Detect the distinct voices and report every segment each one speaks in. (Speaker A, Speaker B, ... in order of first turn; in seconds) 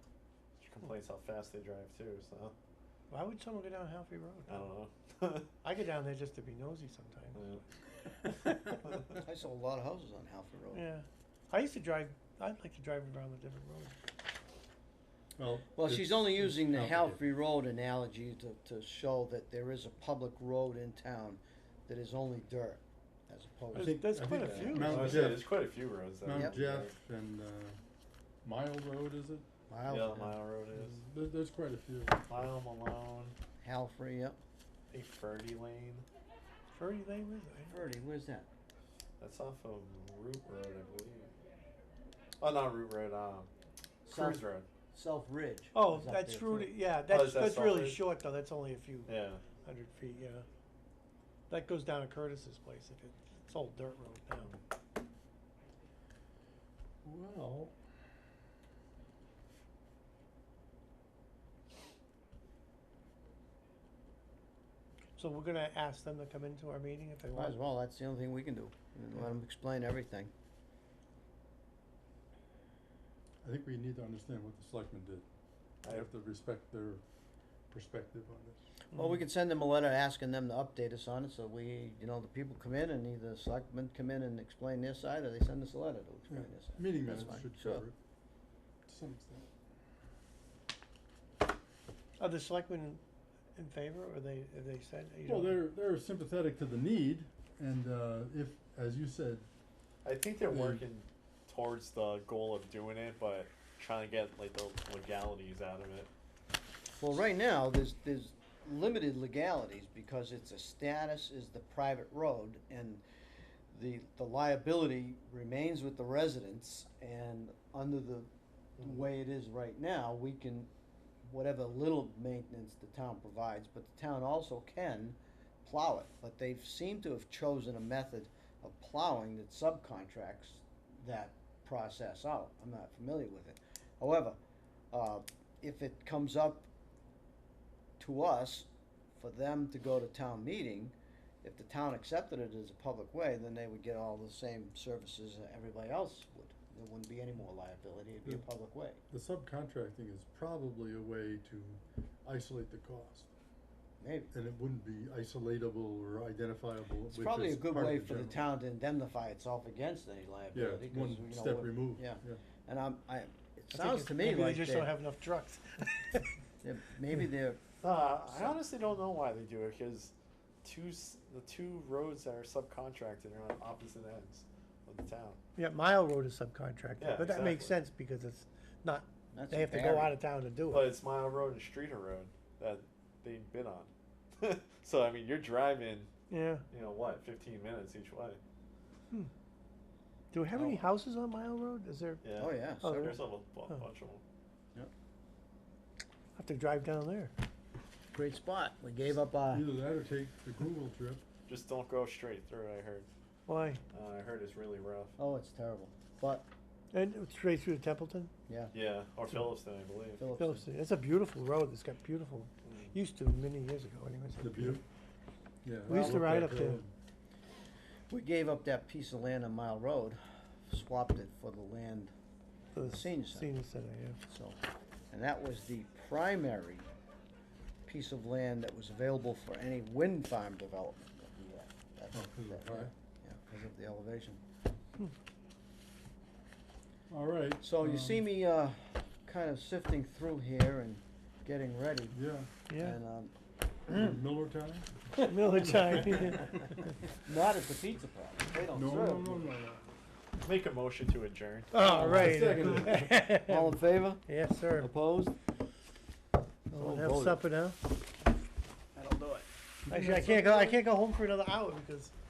Speaker A: 0.6-2.5, 4.5-5.5, 7.3-7.6, 24.3-26.9, 29.9-31.0, 32.3-33.3, 34.9-36.0, 39.2-41.3, 42.4-43.5, 44.1-44.7, 47.1-48.0, 49.1-49.4, 100.0-106.1, 167.8-175.4, 177.0-177.8, 180.7-186.1, 186.7-188.4, 190.5-190.8, 192.2-194.2, 201.4-203.1, 203.9-205.2, 208.7-210.3, 250.4-251.9
Speaker B: 3.1-4.7, 5.6-7.4, 8.2-8.7, 10.7-13.9, 23.7-25.3, 36.7-37.8, 45.7-50.5, 51.5-54.6, 65.2-67.5, 78.9-79.2, 92.2-93.0, 93.5-95.6, 163.7-166.3, 175.6-180.9, 186.3-186.6, 190.3-193.8, 196.3-197.3, 203.5-203.8, 206.9-208.3, 210.4-214.8, 215.9-216.8, 222.7-224.2, 242.7-243.0, 245.2-246.9, 251.7-254.9, 256.7-257.8, 259.9-262.1
Speaker C: 9.2-10.8, 15.8-24.0, 29.7-30.3, 33.6-34.4, 37.7-38.5, 44.0-46.7, 67.2-70.3, 78.9-87.8, 107.0-113.0, 113.7-120.7, 121.2-134.4, 134.9-136.7, 138.0-149.0, 154.0-154.3, 157.1-164.9, 166.6-167.6, 168.3-168.6, 179.3-180.1, 192.4-193.1, 198.1-199.7, 205.2-206.5, 208.5-208.7, 210.2-210.7, 215.9-216.2, 218.1-222.1, 222.8-223.5, 224.3-224.6, 225.1-226.8, 227.9-234.4, 237.6-242.2, 242.8-243.3, 243.9-244.2, 247.2-249.5, 253.4-255.3, 256.7-257.4, 258.9-259.4
Speaker D: 15.4-17.2, 23.7-25.6, 26.2-27.8, 28.4-29.5, 30.7-32.3, 57.0-57.7, 73.4-75.2, 75.8-77.0, 77.7-78.6, 86.3-88.0, 88.9-89.5, 95.2-99.5, 100.5-100.8, 149.1-153.3, 154.3-158.3, 160.5-162.4, 199.5-201.2, 214.4-214.8, 215.6-216.9, 232.1-232.9, 237.1-238.2, 242.1-242.5, 243.9-246.7, 248.7-249.8, 251.8-253.2, 259.9-260.8